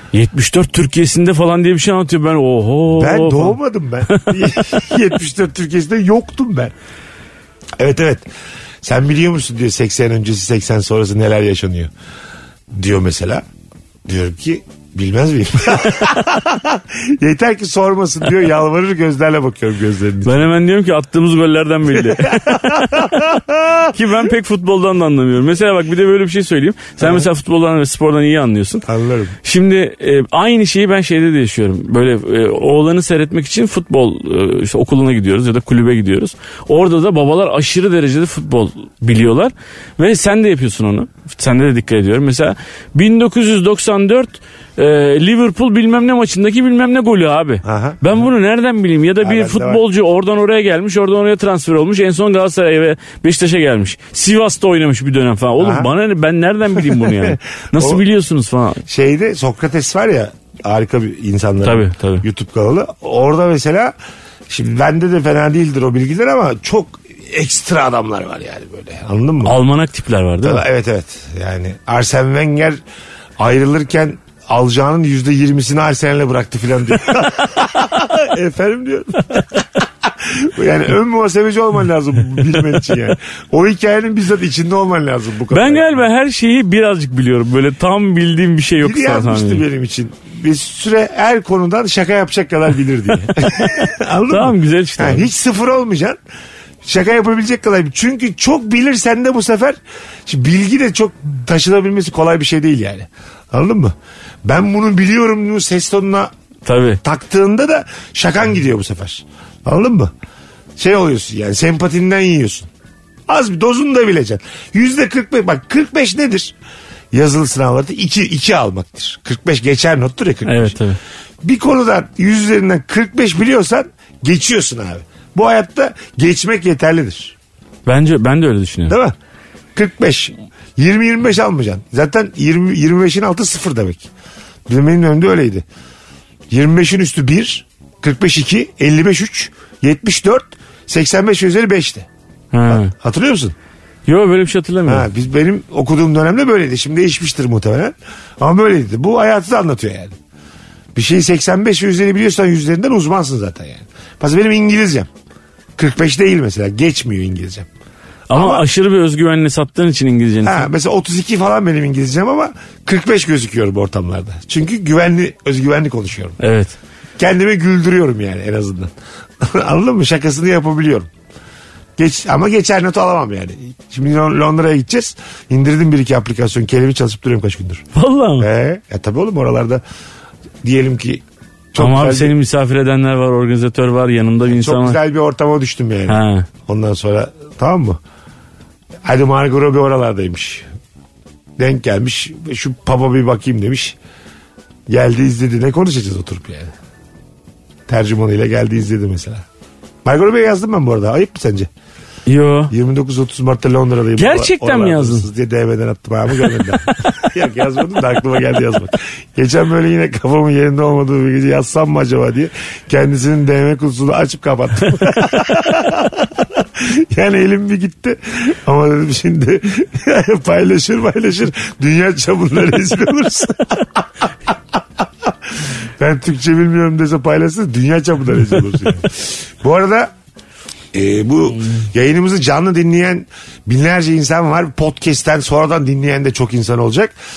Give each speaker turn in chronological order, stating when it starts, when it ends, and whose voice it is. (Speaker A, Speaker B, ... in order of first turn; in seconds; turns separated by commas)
Speaker A: 0.1-3.6, Speaker B: 2.9-6.7, Speaker A: 4.1-4.4, Speaker B: 7.8-8.3, Speaker B: 8.8-11.9, Speaker B: 12.7-13.4, Speaker B: 14.1-20.5, Speaker A: 20.2-23.3, Speaker B: 21.9-24.0, Speaker A: 23.9-28.9, Speaker B: 27.0-27.3, Speaker B: 28.9-29.4, Speaker A: 29.4-58.8, Speaker B: 47.6-48.1, Speaker B: 49.2-49.8, Speaker B: 55.6-55.9, Speaker B: 56.8-58.0, Speaker B: 58.9-63.9, Speaker A: 61.6-62.2, Speaker B: 64.5-69.6, Speaker A: 69.4-70.6, Speaker B: 70.4-72.8, Speaker B: 73.4-85.9, Speaker A: 85.5-89.6, Speaker B: 88.8-96.2, Speaker A: 93.7-95.3, Speaker B: 96.8-106.3, Speaker A: 106.6-107.0, Speaker B: 107.0-110.1, Speaker B: 110.8-112.7, Speaker B: 113.3-116.5, Speaker B: 117.1-120.8, Speaker A: 120.4-121.0, Speaker B: 121.4-127.3, Speaker A: 127.8-129.0, Speaker B: 128.9-129.2, Speaker B: 129.7-134.1, Speaker B: 134.7-135.6, Speaker B: 136.5-142.1, Speaker A: 142.5-142.9, Speaker B: 142.7-143.5, Speaker A: 144.1-145.1, Speaker B: 144.8-150.1, Speaker B: 150.9-155.1, Speaker B: 155.8-157.7, Speaker A: 158.3-160.7, Speaker B: 158.3-158.6, Speaker B: 160.4-166.4, Speaker A: 166.4-166.8, Speaker B: 167.2-171.1, Speaker B: 172.0-177.8, Speaker A: 177.9-178.5, Speaker B: 178.4-179.8, Speaker B: 180.6-182.3, Speaker A: 181.8-185.0, Speaker B: 184.5-188.0, Speaker A: 186.1-186.5, Speaker B: 189.0-190.7, Speaker B: 191.6-194.0, Speaker B: 194.9-196.7, Speaker B: 197.9-199.4, Speaker B: 200.0-201.7, Speaker A: 202.3-202.7, Speaker B: 202.7-230.1, Speaker A: 204.2-205.3, Speaker A: 206.4-207.3, Speaker B: 230.9-237.1